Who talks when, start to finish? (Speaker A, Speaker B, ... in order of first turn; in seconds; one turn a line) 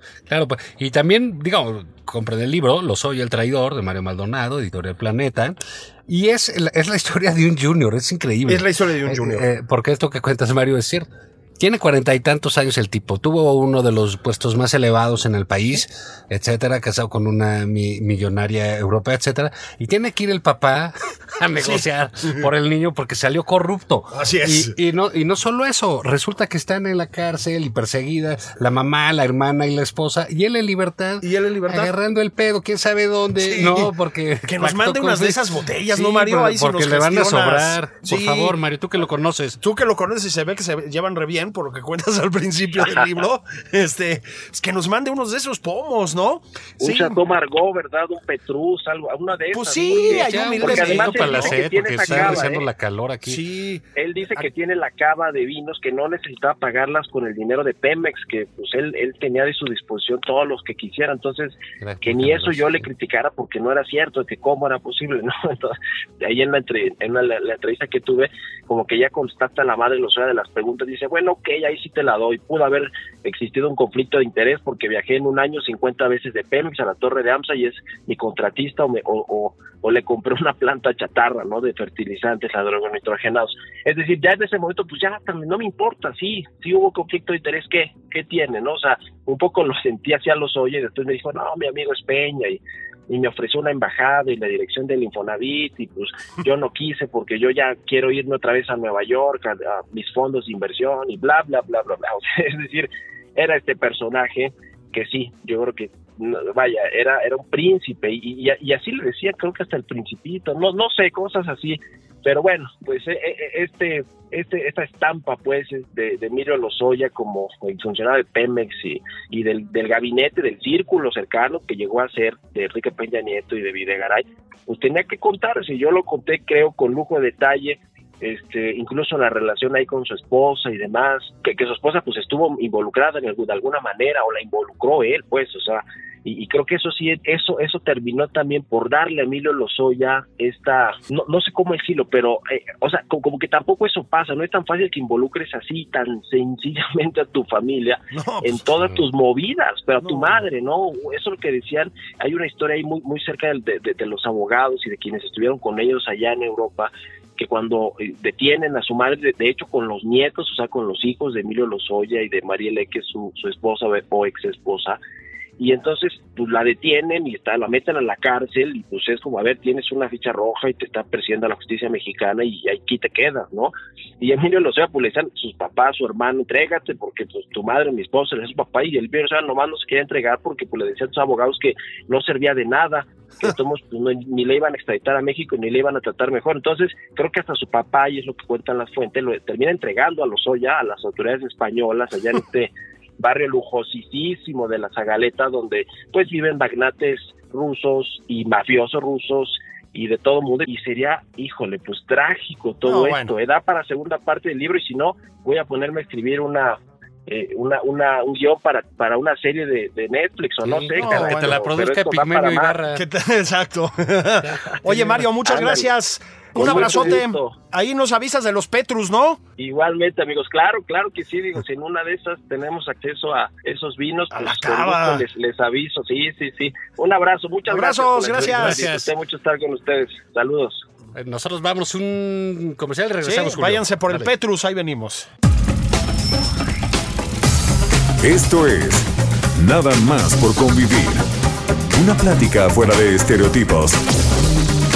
Speaker A: 0.3-39.6
Speaker B: 8.5-9.4
Speaker B: 21.6-22.5
Speaker B: 24.1-24.7
Speaker B: 31.2-31.9
Speaker B: 33.4-33.9
Speaker B: 34.4-38.6
Speaker B: 39.6-47.2
Speaker C: 46.8-52.6
Speaker B: 49.5-52.5
Speaker A: 49.9-53.4
Speaker B: 53.2-53.8
Speaker C: 54.0-165.0
Speaker A: 61.8-62.9
Speaker B: 148.1-149.0
Speaker B: 150.0-150.4
Speaker C: 165.6-212.8
Speaker B: 202.8-203.3
Speaker A: 210.6-213.0
Speaker B: 210.9-211.7
Speaker B: 212.9-219.4
Speaker A: 214.4-215.3
Speaker C: 215.4-215.9
Speaker C: 216.5-217.6
Speaker A: 216.6-217.2
Speaker C: 219.6-230.8
Speaker B: 224.3-225.2
Speaker B: 227.7-228.8
Speaker A: 228.3-229.1
Speaker A: 231.1-234.3
Speaker B: 233.2-235.3
Speaker D: 238.2-241.3
Speaker D: 241.9-244.0